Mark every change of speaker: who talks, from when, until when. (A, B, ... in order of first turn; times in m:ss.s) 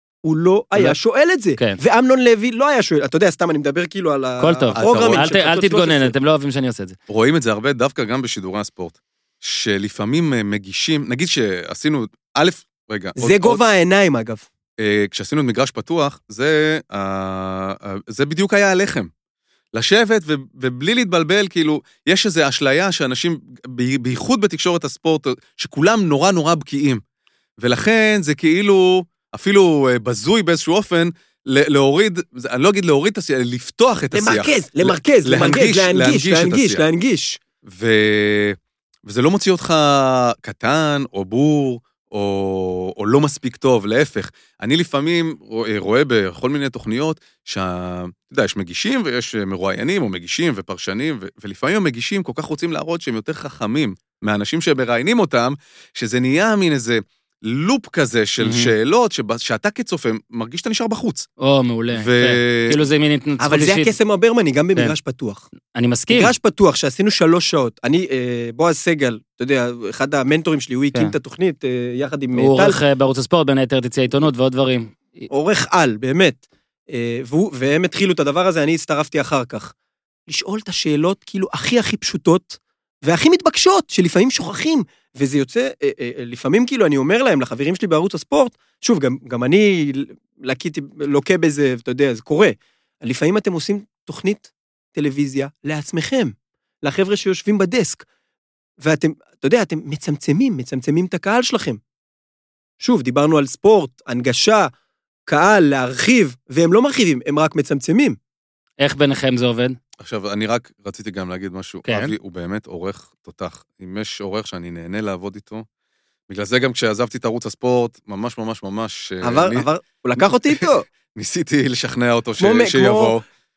0:00.2-0:06.1 A
0:04.4-0:07.0 B
0:04.7-0:05.3 C
0:07.1-0:13.6 C
0:13.2-0:14.4 A
0:14.8-0:19.1 C
0:19.7-0:27.0 C
0:27.6-0:36.8 C
0:34.1-0:37.4 A
0:37.6-1:01.3 C
0:58.4-0:58.7 B
1:01.4-1:03.9 B
1:01.9-1:02.8 C
1:03.4-1:05.5 A
1:05.7-1:06.3 B
1:06.1-1:12.8 A
1:12.3-1:15.3 B
1:15.3-1:19.7 A
1:20.3-1:38.0 A
1:38.8-1:41.8 A
1:42.8-1:44.7 A
1:45.3-1:48.2 A
1:48.8-1:49.8 B
1:50.0-1:55.6 C
1:51.8-1:52.1 B
1:56.3-1:59.7 C
1:59.2-2:00.9 A
2:00.2-2:00.6 C
2:01.1-2:03.2 C
2:02.4-2:03.2 A